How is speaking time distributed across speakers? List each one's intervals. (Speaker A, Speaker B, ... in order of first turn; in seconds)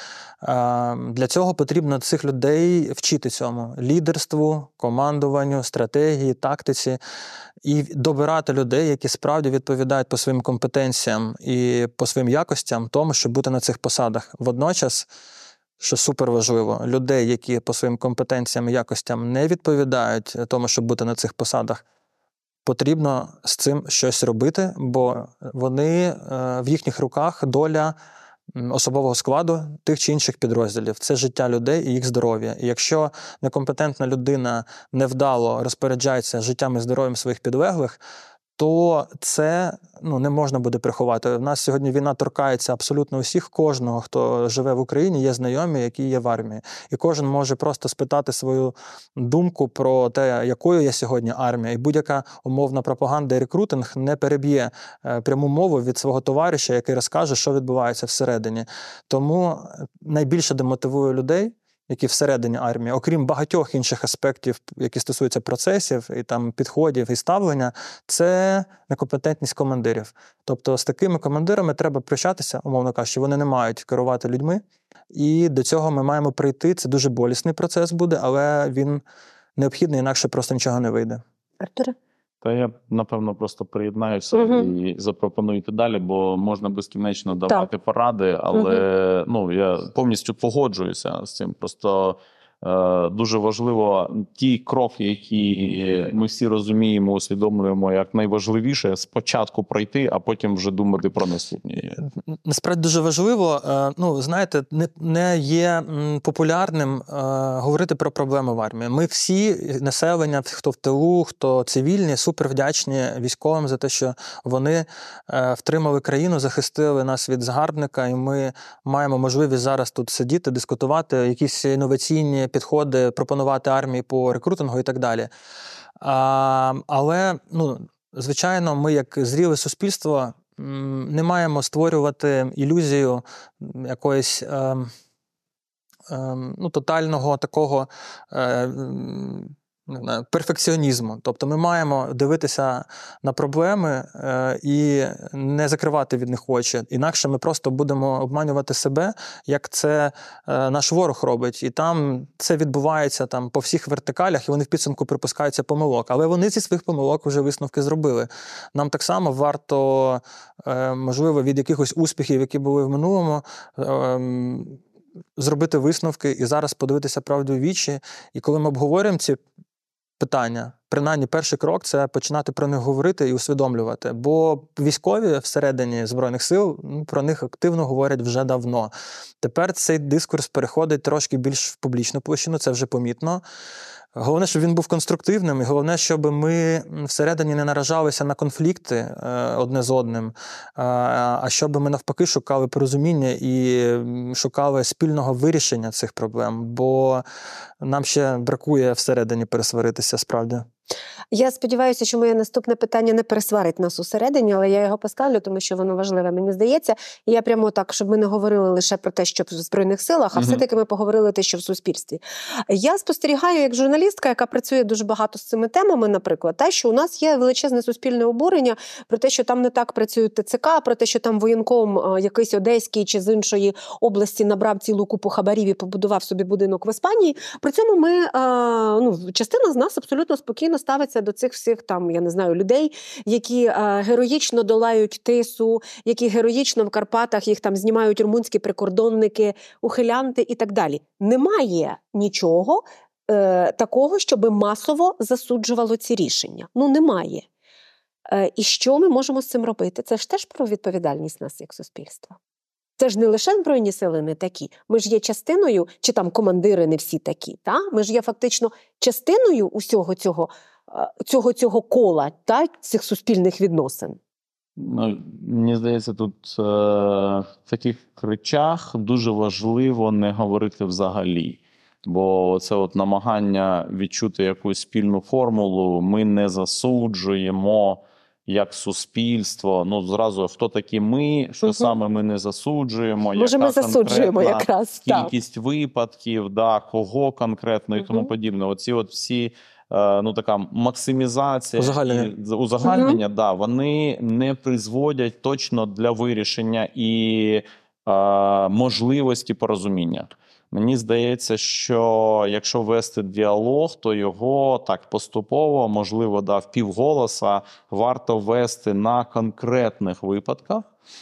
Speaker A: 0.4-7.0, 7.6-15.1, 15.8-21.8, 22.6-27.9, 28.5-38.0, 38.6-79.0, 79.6-81.2, 102.5-125.3, 126.0-134.9, 136.1-164.8, 165.4-169.4, 170.2-183.4, 184.2-197.2, 197.8-200.7, 291.8-292.3
Speaker B: 81.6-82.0, 84.3-84.7, 88.5-88.8, 201.3-247.5, 248.3-252.4, 253.0-264.2, 281.6-281.9, 283.4-285.3, 288.0-288.3, 292.8-293.2
Speaker C: 82.4-102.0, 210.3-210.6, 264.8-310.9